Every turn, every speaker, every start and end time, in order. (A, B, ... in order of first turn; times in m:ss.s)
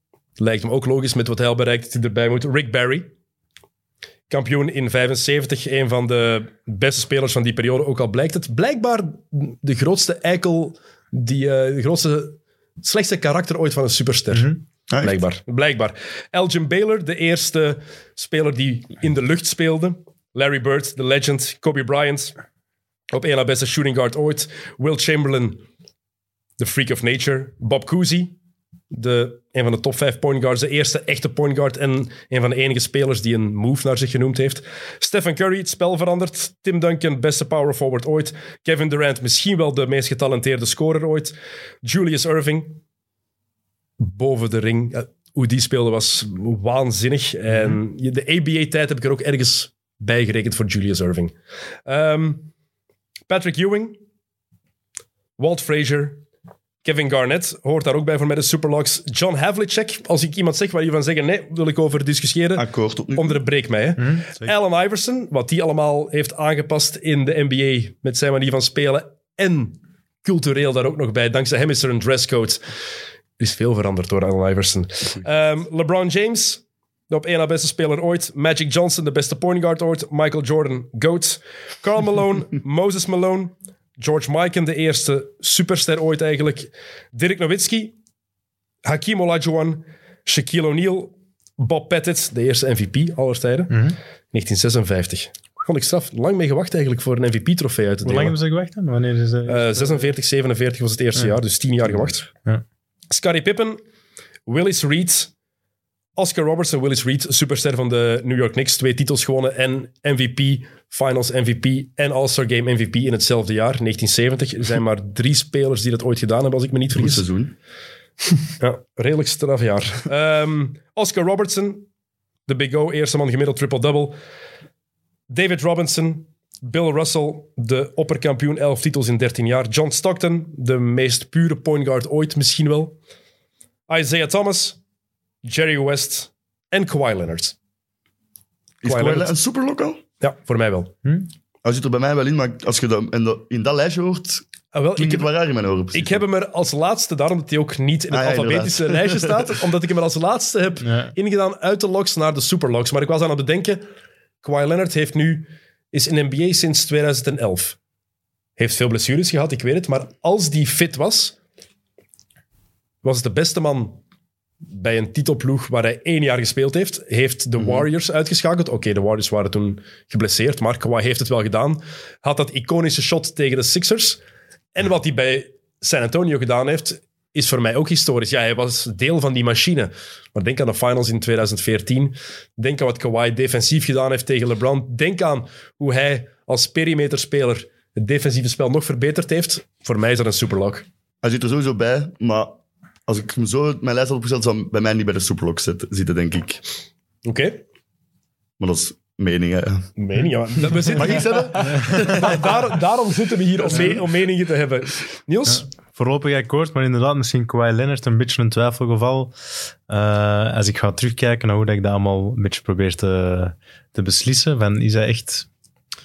0:00.4-0:03.1 A
0:04.3-0:22.3 A
0:14.3-0:14.6 B
0:14.9-0:15.2 C
0:23.1-0:25.6 A
0:26.6-0:28.4 A
0:28.9-0:42.8 A
0:44.0-0:51.3 A
0:51.8-0:52.5 A
0:53.3-0:54.0 A
0:55.4-0:56.2 A
0:56.8-1:12.6 A
1:02.5-1:03.4 C
1:04.0-1:04.5 B
1:13.4-1:27.9 A
1:28.8-1:38.4 A
1:33.7-1:34.0 B
1:38.0-1:40.1 B
1:39.5-1:42.3 A
1:43.1-1:43.8 A
1:44.4-1:45.3 A
1:46.2-1:57.2 A
1:56.9-1:57.5 C
1:58.6-2:01.9 A
2:02.5-2:04.2 A
2:05.3-2:12.9 A
2:13.9-2:14.8 A
2:15.4-2:17.6 A
2:18.8-2:20.0 C
2:18.8-2:19.3 A
2:20.2-2:20.9 A
2:21.6-2:24.4 C
2:24.7-2:25.3 A
2:25.0-2:26.2 C
2:25.9-2:33.8 A
2:28.1-2:29.4 C
2:30.8-2:31.1 B
2:34.4-2:37.8 A
2:38.6-2:41.4 A
2:43.0-2:44.0 A
2:44.7-2:54.2 A
2:47.6-2:47.8 C
2:54.7-3:10.8 A
3:11.2-3:16.6 C
3:17.2-3:17.6 A
3:18.6-3:19.9 C
3:20.0-3:25.7 A
3:20.8-3:22.8 C
3:21.6-3:22.1 B
3:23.7-3:24.0 C
3:25.4-3:35.5 B